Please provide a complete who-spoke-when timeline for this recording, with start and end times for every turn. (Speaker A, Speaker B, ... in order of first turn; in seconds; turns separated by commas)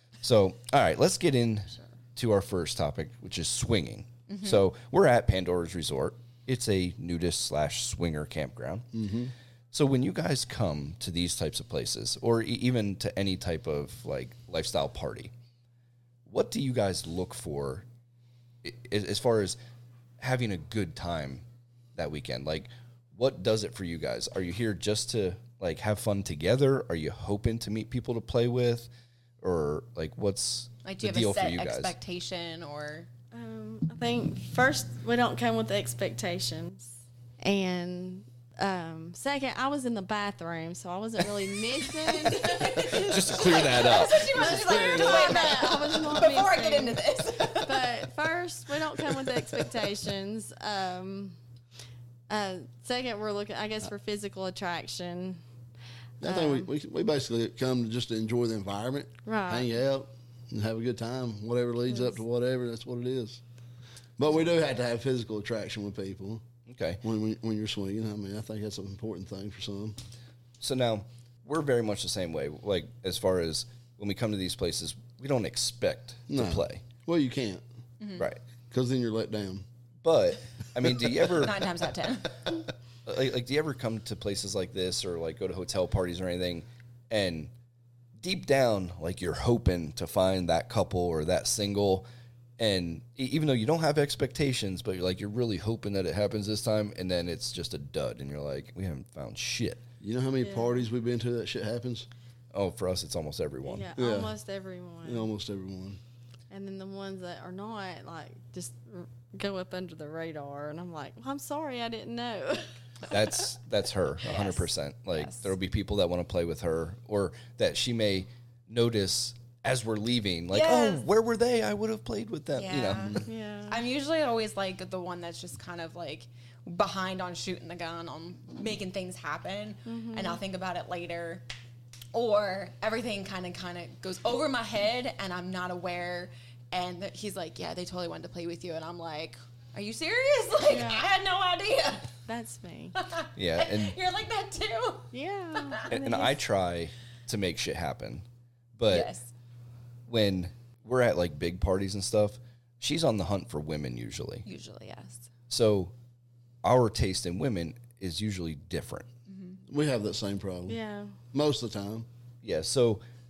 Speaker A: 0.2-8.9, Speaker B: 4.3-4.6, Speaker C: 8.9-9.3, Speaker A: 9.7-15.3, Speaker A: 16.2-17.8, Speaker A: 18.6-19.6, Speaker A: 20.2-21.4, Speaker A: 21.9-28.9, Speaker A: 29.4-31.9, Speaker B: 30.8-33.1, Speaker D: 33.3-42.9, Speaker B: 42.2-48.0, Speaker A: 42.6-44.3, Speaker D: 44.2-51.4, Speaker C: 44.3-45.6, Speaker D: 52.3-55.4, Speaker C: 56.2-63.4, Speaker D: 56.2-56.7, Speaker D: 59.2-59.7, Speaker C: 64.2-66.4, Speaker A: 66.7-67.0, Speaker C: 67.0-70.0, Speaker A: 70.6-76.8, Speaker C: 76.3-77.6, Speaker B: 78.0-78.3, Speaker C: 78.7-79.6, Speaker A: 80.0-81.7, Speaker B: 81.2-82.6, Speaker A: 83.0-87.5, Speaker A: 88.2-92.0, Speaker A: 92.6-99.8, Speaker C: 100.0-102.1, Speaker D: 100.4-100.8, Speaker A: 102.5-103.9, Speaker D: 103.6-105.3, Speaker C: 104.0-104.3, Speaker C: 105.0-106.0, Speaker D: 106.5-113.2, Speaker A: 113.1-123.2, Speaker B: 114.2-115.5, Speaker B: 120.5-121.1, Speaker B: 122.5-131.4, Speaker D: 123.2-123.8, Speaker D: 129.9-130.4, Speaker B: 132.1-142.1, Speaker D: 140.7-141.1, Speaker D: 142.2-142.9, Speaker B: 142.9-145.9, Speaker A: 143.3-143.9, Speaker D: 145.1-146.4, Speaker A: 145.9-148.2, Speaker A: 148.8-149.1, Speaker B: 148.9-149.3, Speaker A: 150.1-154.4, Speaker B: 154.4-155.3, Speaker A: 155.5-155.9, Speaker A: 156.6-159.1, Speaker B: 159.3-159.6, Speaker C: 159.7-160.8, Speaker D: 160.7-161.2, Speaker C: 161.3-162.1, Speaker A: 162.4-163.0